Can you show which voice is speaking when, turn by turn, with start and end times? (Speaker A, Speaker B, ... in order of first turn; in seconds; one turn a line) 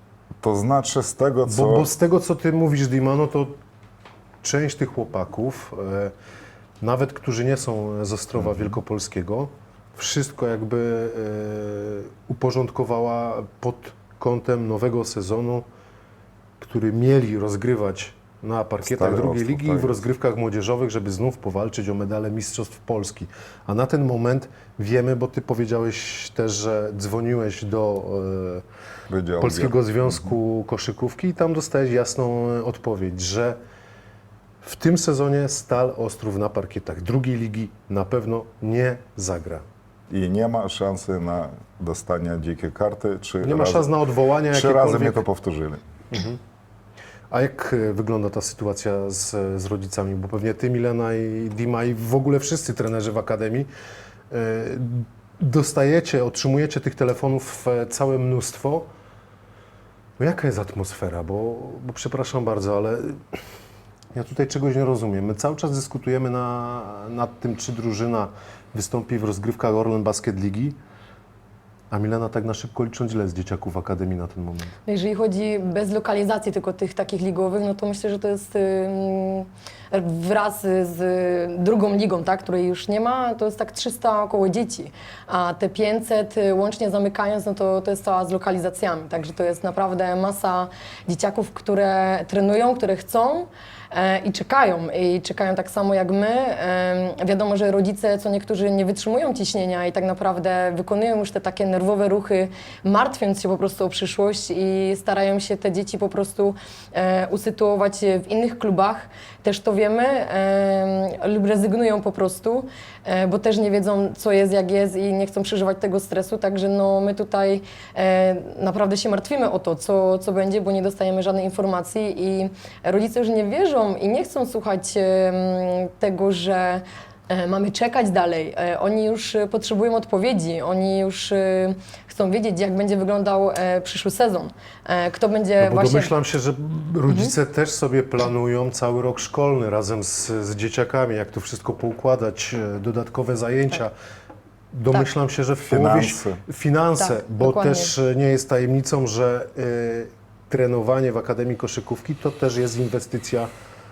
Speaker A: 0.4-1.9
Speaker B: 1.5-3.5
Speaker B: 4.4-6.1
Speaker B: 6.8-15.6
Speaker A: 8.4-8.8
Speaker B: 16.6-28.6
Speaker A: 18.8-20.0
Speaker A: 29.1-30.3
Speaker B: 29.4-33.6
Speaker B: 34.6-39.6
Speaker A: 40.1-43.9
Speaker B: 43.4-45.2
Speaker A: 44.5-45.9
Speaker B: 46.1-46.4
Speaker B: 47.3-53.7
Speaker B: 54.3-58.9
Speaker B: 60.2-63.4
Speaker B: 64.1-70.8
Speaker B: 71.9-74.7
Speaker C: 74.9-136.1
Speaker B: 135.6-143.9
Speaker B: 144.7-153.5
Speaker A: 145.7-146.4
Speaker C: 147.0-147.9